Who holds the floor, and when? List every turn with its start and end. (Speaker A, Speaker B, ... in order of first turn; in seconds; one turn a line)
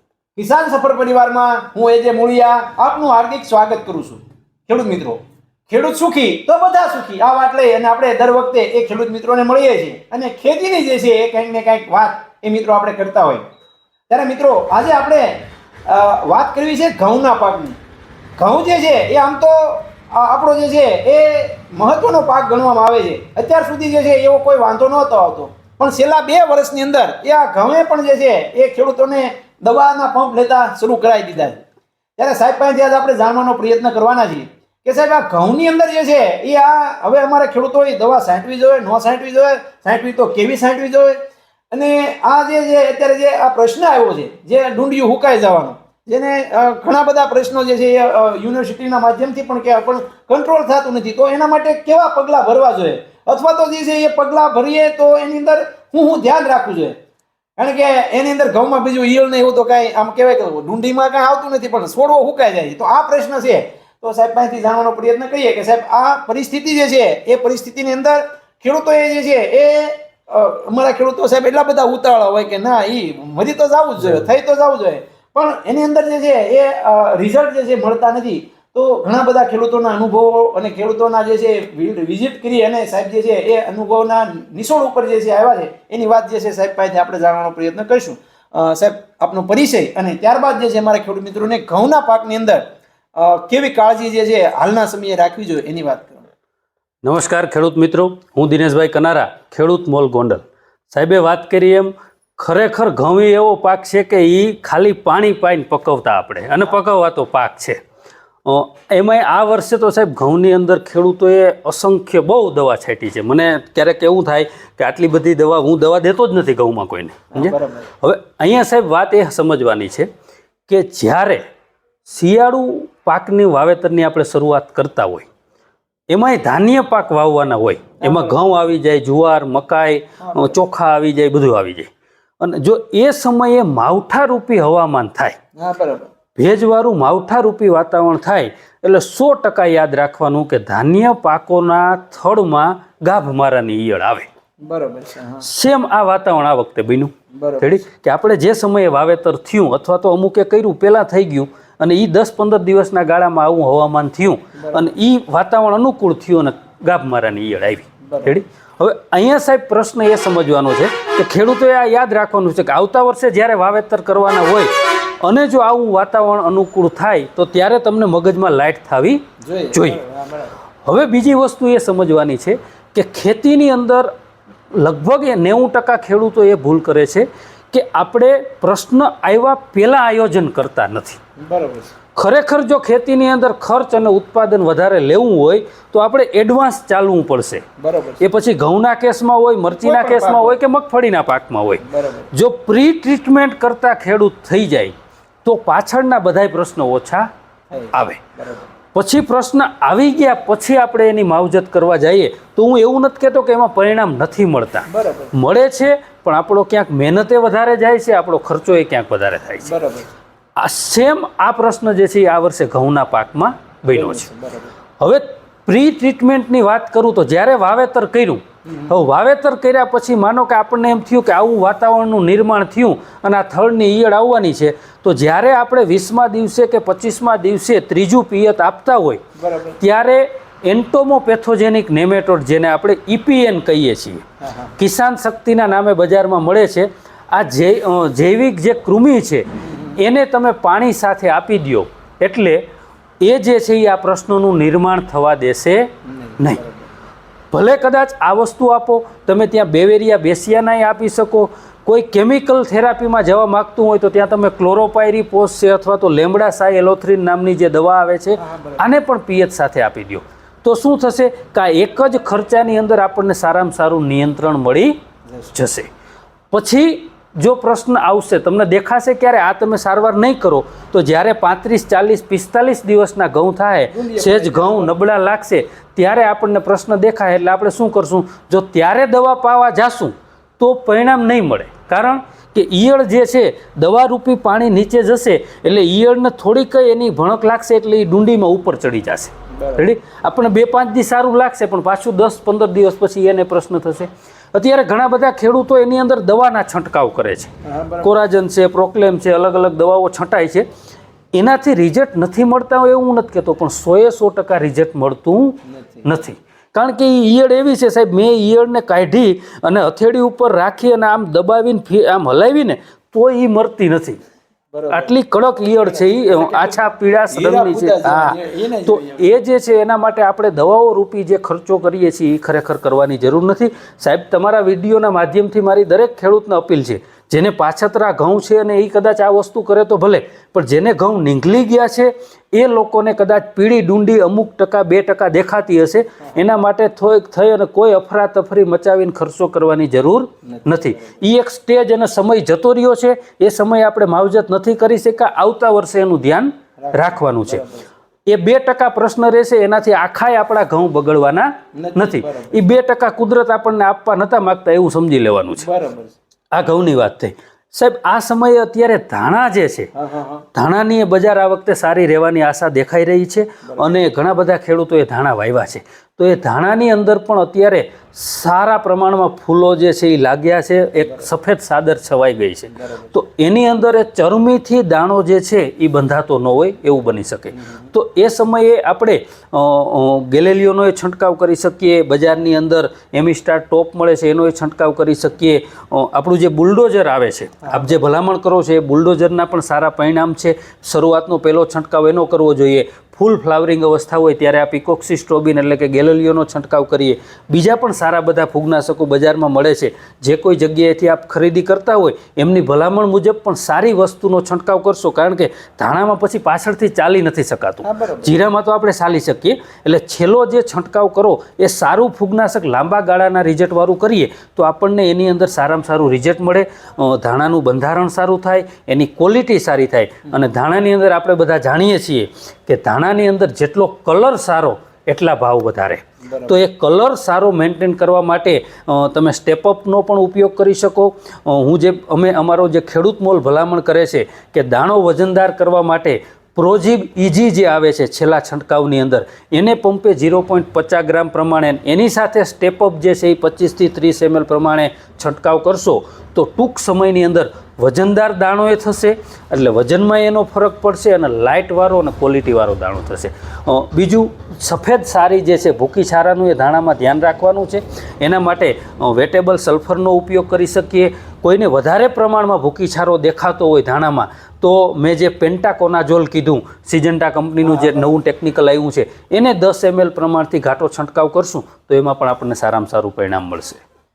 Speaker A: 0.3-13.4
Speaker A: 14.1-17.8
Speaker A: 18.4-31.6
Speaker A: 32.2-41.2
Speaker A: 41.7-56.9
Speaker A: 57.6-92.6
Speaker A: 93.2-96.3
Speaker B: 97.0-107.8
Speaker B: 108.4-120.1
Speaker A: 117.3-117.9
Speaker B: 120.7-121.4
Speaker B: 122.1-125.3
Speaker B: 126.1-131.9
Speaker A: 128.0-128.4
Speaker A: 130.2-130.6
Speaker B: 132.4-135.3
Speaker A: 135.6-136.1
Speaker B: 136.4-144.3
Speaker A: 144.6-145.4
Speaker B: 145.4-164.7
Speaker A: 147.3-147.7
Speaker A: 154.6-154.8
Speaker A: 158.1-158.3
Speaker B: 165.2-169.2
Speaker A: 169.4-170.5
Speaker B: 169.7-170.0
Speaker B: 170.8-174.1
Speaker B: 174.7-181.2
Speaker A: 181.4-181.9
Speaker B: 182.2-187.6
Speaker A: 187.8-188.2
Speaker B: 188.2-197.3
Speaker A: 189.7-190.6
Speaker A: 191.8-192.3
Speaker A: 197.7-198.7
Speaker B: 197.9-198.2
Speaker B: 198.9-209.7
Speaker A: 204.9-205.3
Speaker A: 209.6-210.1
Speaker B: 210.6-214.2
Speaker A: 213.9-214.7
Speaker B: 215.0-229.2
Speaker A: 218.7-218.9
Speaker A: 229.4-229.8
Speaker B: 229.8-234.2
Speaker A: 234.4-234.7
Speaker B: 234.8-239.4
Speaker A: 239.6-240.0
Speaker B: 239.9-242.6
Speaker B: 243.2-245.9
Speaker A: 246.1-246.9
Speaker B: 247.5-264.9
Speaker A: 258.4-258.8
Speaker A: 265.3-265.6
Speaker B: 265.5-265.9
Speaker B: 266.5-297.5
Speaker A: 273.9-274.9
Speaker A: 289.5-289.9
Speaker A: 297.6-298.1
Speaker B: 298.0-300.6
Speaker B: 301.3-314.2
Speaker A: 305.6-306.1
Speaker A: 314.7-315.1
Speaker B: 314.9-347.6
Speaker A: 315.8-319.3
Speaker A: 340.5-341.2
Speaker A: 346.8-347.9
Speaker B: 348.2-355.7
Speaker A: 351.8-352.6
Speaker A: 355.6-356.1
Speaker B: 356.5-359.9
Speaker A: 359.9-360.4
Speaker B: 360.5-473.8
Speaker A: 363.6-364.0
Speaker A: 372.7-373.1
Speaker A: 377.5-377.8
Speaker A: 387.6-387.9
Speaker A: 407.8-408.4
Speaker A: 426.2-426.6
Speaker A: 467.6-468.0